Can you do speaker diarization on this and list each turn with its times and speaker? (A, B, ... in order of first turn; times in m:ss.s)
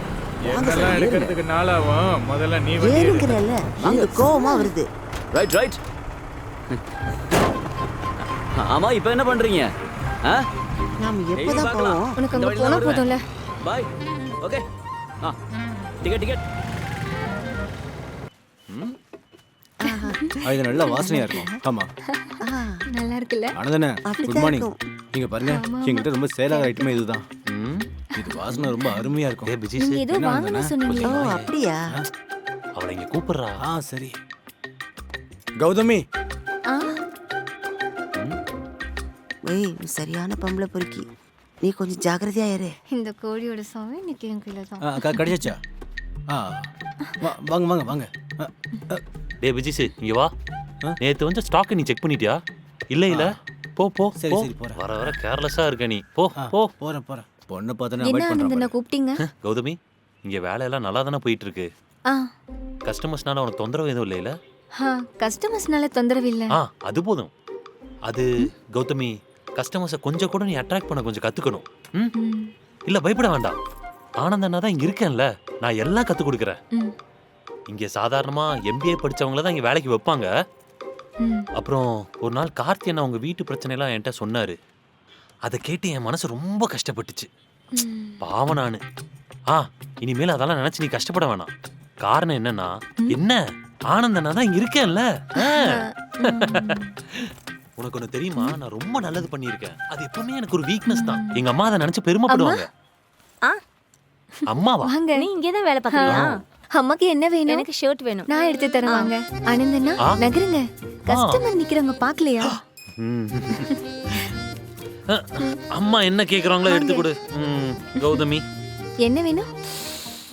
0:00.4-0:03.4 A
0:00.5-0:01.4 B
0:02.8-0:04.9 C
0:03.8-0:04.3 B
0:05.3-0:05.8 B
0:08.6-0:09.7 B
0:11.0-0:12.2 C
0:11.4-0:13.1 B
0:12.2-0:13.2 D
0:13.6-0:13.9 B
0:16.0-0:16.4 B
0:19.8-0:21.6 C
0:20.4-0:21.9 E
0:22.4-0:22.8 C
0:22.9-0:23.6 D
0:23.6-0:27.3 E
0:24.1-0:24.8 C
0:25.4-0:27.1 D
0:27.5-0:27.9 F
0:28.1-0:29.1 D
0:28.2-0:30.8 E
0:29.5-0:30.1 F
0:29.8-0:31.2 D
0:30.8-0:31.5 F
0:31.0-0:31.8 C
0:32.8-0:33.6 F
0:33.6-0:34.2 E
0:35.6-0:36.0 E
0:36.7-0:37.0 D
0:39.4-0:41.1 C
0:41.6-0:42.7 C
0:42.9-0:45.3 D
0:44.8-0:45.6 E
0:46.3-0:46.7 E
0:47.2-0:49.0 E
0:49.4-0:50.3 F
0:51.0-0:52.4 F
0:52.9-0:56.7 F
0:54.2-0:55.2 E
0:56.4-0:58.8 E
0:58.0-0:59.2 D
0:59.4-1:01.7 F
1:02.9-1:04.3 F
1:04.8-1:06.6 D
1:06.6-1:07.3 F
1:08.1-1:12.1 F
1:12.2-1:12.5 D
1:12.9-1:13.6 F
1:14.2-1:16.6 F
1:17.7-1:20.3 F
1:21.2-1:21.5 D
1:21.6-1:24.6 F
1:25.5-1:27.3 F
1:27.7-1:28.2 D
1:28.2-1:28.8 F
1:29.5-1:31.5 F
1:32.0-1:42.7 F
1:35.4-1:36.9 D
1:40.9-1:41.5 D
1:42.3-1:42.7 D
1:44.4-1:45.3 D
1:44.5-1:45.0 F
1:45.1-1:46.4 G
1:45.9-1:47.7 D
1:46.1-1:46.3 F
1:47.5-1:49.1 G
1:48.3-1:52.6 D
1:51.1-1:51.4 F
1:53.0-1:53.7 F
1:53.6-1:54.3 D
1:55.1-1:58.4 F
1:56.6-1:57.1 D
1:59.0-1:59.5 D